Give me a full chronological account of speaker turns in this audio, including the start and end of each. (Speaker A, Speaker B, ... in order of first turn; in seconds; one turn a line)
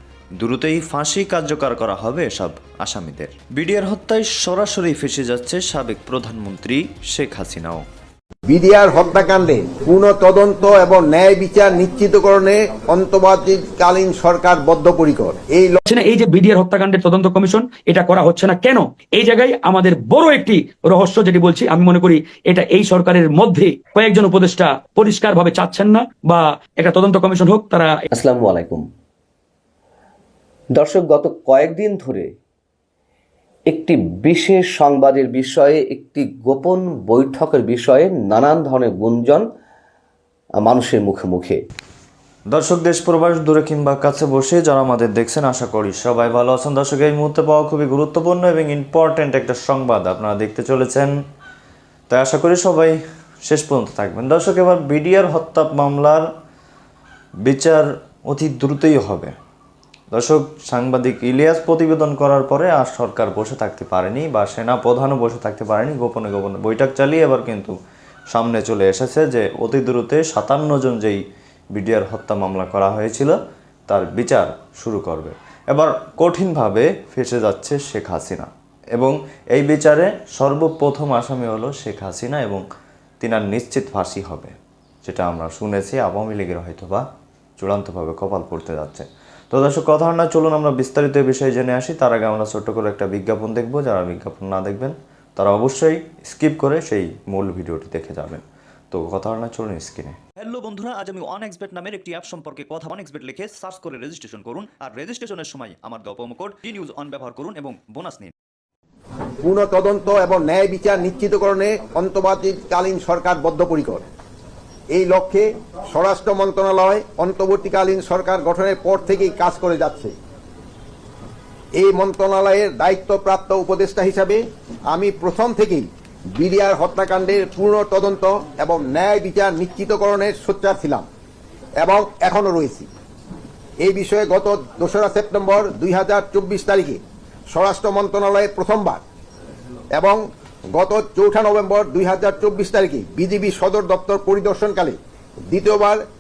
Speaker A: 0.4-7.9
Speaker B: 8.5-15.8
Speaker C: 15.8-28.0
Speaker D: 28.1-28.8
Speaker D: 30.7-32.3
Speaker D: 33.7-39.5
Speaker D: 40.6-41.6
Speaker A: 42.5-51.1
Speaker A: 52.1-56.3
Speaker A: 57.5-59.3
Speaker A: 60.1-67.7
Speaker A: 68.3-71.2
Speaker A: 71.7-73.4
Speaker A: 73.9-82.6
Speaker A: 83.2-84.5
Speaker A: 85.0-87.0
Speaker A: 87.6-100.2
Speaker E: 100.4-108.3
Speaker B: 109.4-114.0
Speaker B: 114.9-120.1
Speaker B: 121.8-124.4
Speaker B: 124.9-131.1
Speaker B: 131.8-132.9
Speaker B: 133.8-137.0
Speaker B: 137.5-139.0
Speaker B: 139.9-140.2
Speaker B: 140.7-145.0
Speaker B: 145.5-146.0